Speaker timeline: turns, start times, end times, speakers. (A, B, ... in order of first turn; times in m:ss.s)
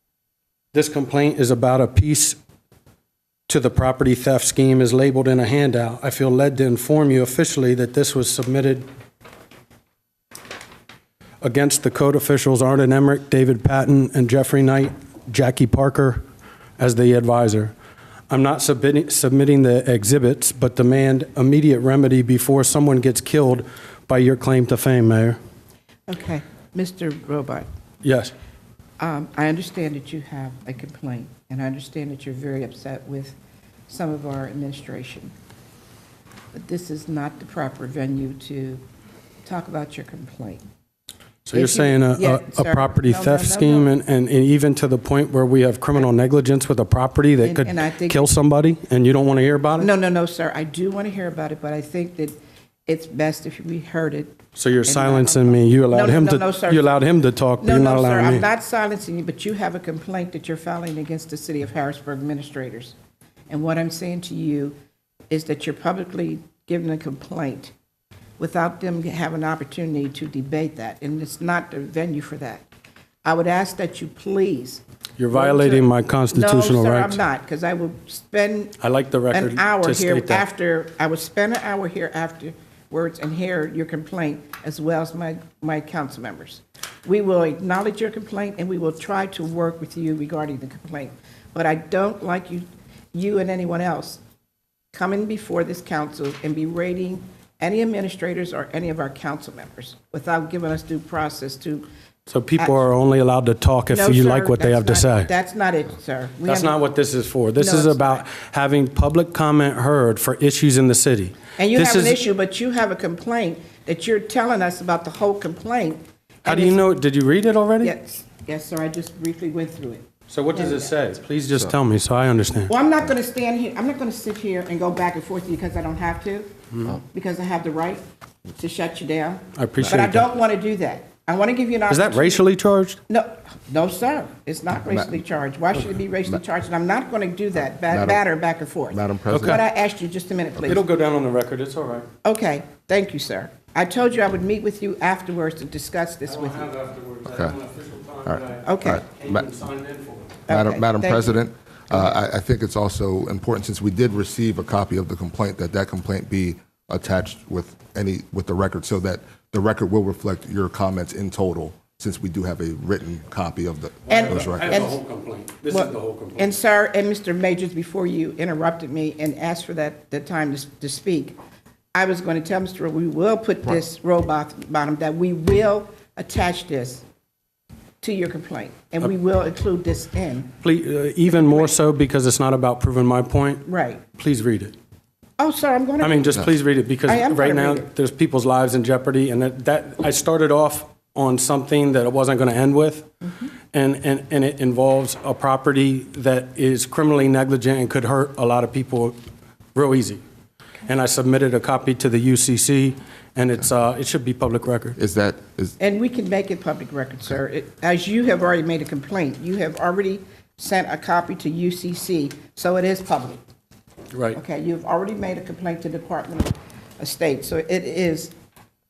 0:00.7-0:02.4 A
0:03.5-0:08.8 A
0:11.4-0:16.2 A
0:16.8-0:17.7 A
0:18.3-0:25.4 A
0:26.1-0:27.7 B
0:28.0-0:28.3 A
0:29.0-0:33.4 B
0:33.9-0:35.3 B
0:36.5-0:38.8 B
0:39.4-0:40.6 B
0:41.4-0:49.9 A
0:41.5-0:43.9 B
0:47.4-0:48.2 B
0:49.8-0:52.4 B
0:52.9-0:56.9 B
0:54.5-0:58.4 A
0:57.6-1:02.9 B
1:03.5-1:04.7 B
1:05.3-1:07.7 B
1:08.4-1:12.6 B
1:13.2-1:18.8 B
1:15.2-1:17.2 A
1:18.8-1:20.4 A
1:19.3-1:34.2 B
1:34.9-1:41.8 B
1:42.3-1:45.3 A
1:43.9-1:46.8 B
1:46.4-1:52.2 A
1:47.6-1:48.2 B
1:51.6-1:56.8 B
1:56.4-1:57.9 A
1:57.8-2:00.9 B
2:00.3-2:02.7 A
2:02.7-2:08.0 B
2:08.6-2:12.4 B
2:09.5-2:10.3 A
2:11.9-2:13.0 A
2:13.1-2:20.8 B
2:17.9-2:18.2 C
2:18.9-2:19.6 C
2:19.3-2:19.6 A
2:20.6-2:22.1 A
2:22.2-2:26.7 B
2:26.3-2:30.3 A
2:28.3-2:29.4 C
2:28.6-2:29.0 B
2:30.5-2:32.2 B
2:30.5-2:44.8 C
2:44.1-2:46.5 A
2:44.1-2:45.0 B
2:45.7-2:51.4 B
2:51.9-2:57.0 B
2:58.0-3:00.5 B
3:00.6-3:04.7 A
3:01.3-3:01.7 B
3:03.7-3:04.0 B
3:05.4-3:06.5 B
3:06.0-3:13.1 A
3:07.0-3:07.9 B
3:13.2-3:13.5 B
3:13.7-3:19.1 A
3:19.7-3:20.2 A
3:20.8-3:25.0 A
3:25.0-3:25.8 C
3:25.8-3:33.4 B
3:34.1-3:34.4 A
3:34.3-3:38.3 B